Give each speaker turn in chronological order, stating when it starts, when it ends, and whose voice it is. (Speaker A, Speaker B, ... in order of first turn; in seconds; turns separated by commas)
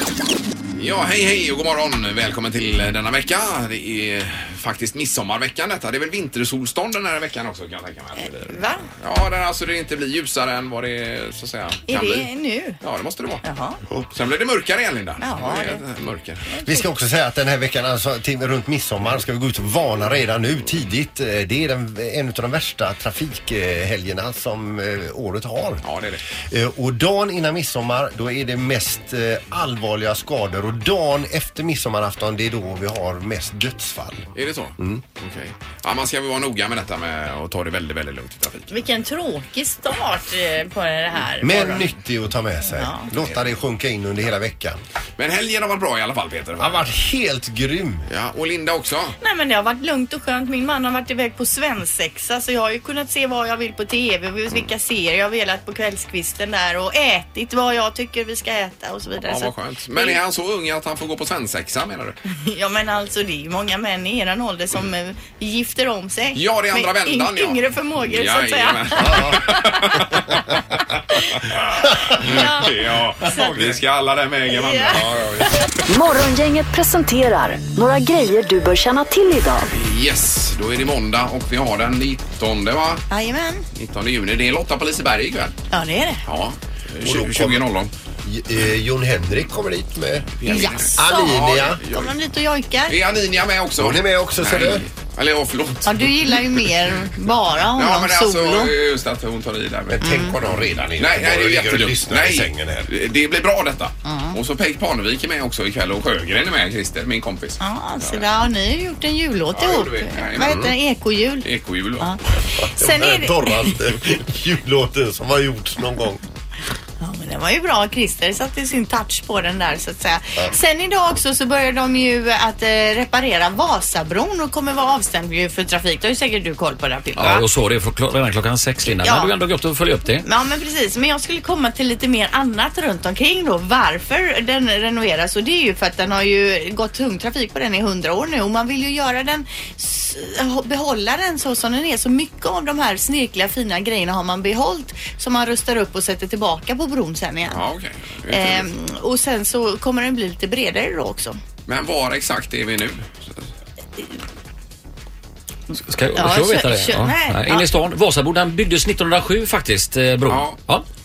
Speaker A: 0.8-12.3, Speaker B: 8.2-8.9, Speaker B: 11.9-12.8, Speaker A: 12.8-13.4, Speaker B: 13.4-13.8, Speaker A: 14.0-16.4, Speaker B: 15.2-15.8, Speaker B: 16.5-16.9, Speaker C: 16.6-25.8, Speaker A: 25.8-26.2, Speaker C: 26.5-34.3, Speaker A: 34.3-38.7, Speaker C: 34.8-35.0, Speaker B: 38.7-41.9, Speaker C: 41.4-44.8, Speaker B: 42.6-43.1, Speaker A: 45.2-46.9, Speaker C: 46.6-48.1, Speaker A: 48.1-49.1, Speaker B: 49.2-60.2, Speaker A: 59.2-62.2, Speaker B: 62.4-70.4, Speaker A: 66.3-70.4, Speaker C: 69.0-69.4, Speaker A: 71.1-75.6, Speaker B: 72.1-73.5, Speaker C: 73.3-73.8, Speaker B: 74.5-75.1, Speaker D: 75.9-79.7, Speaker A: 79.7-83.1, Speaker B: 83.1-83.7, Speaker A: 83.7-85.6, Speaker B: 85.7-86.2, Speaker A: 86.2-87.9, Speaker C: 87.0-87.7, Speaker C: 88.2-91.8, Speaker A: 90.4-92.1, Speaker B: 90.5-93.0, Speaker A: 92.9-96.7, Speaker C: 93.8-94.8, Speaker B: 95.8-98.7, Speaker A: 97.7-100.3, Speaker C: 99.9-102.9, Speaker B: 100.0-100.3, Speaker A: 101.0-108.3, Speaker B: 104.0-104.4, Speaker B: 107.6-111.5, Speaker A: 109.5-110.7, Speaker C: 110.4-110.7, Speaker A: 111.4-112.2, Speaker B: 112.0-113.9, Speaker C: 112.6-116.2, Speaker B: 117.0-127.4, Speaker E: 127.2-130.2, Speaker B: 128.8-129.3, Speaker B: 130.2-147.6, Speaker A: 147.4-148.7, Speaker B: 148.3-151.4, Speaker A: 151.7-153.4, Speaker E: 155.7-160.8, Speaker B: 156.1-157.7, Speaker A: 160.3-160.6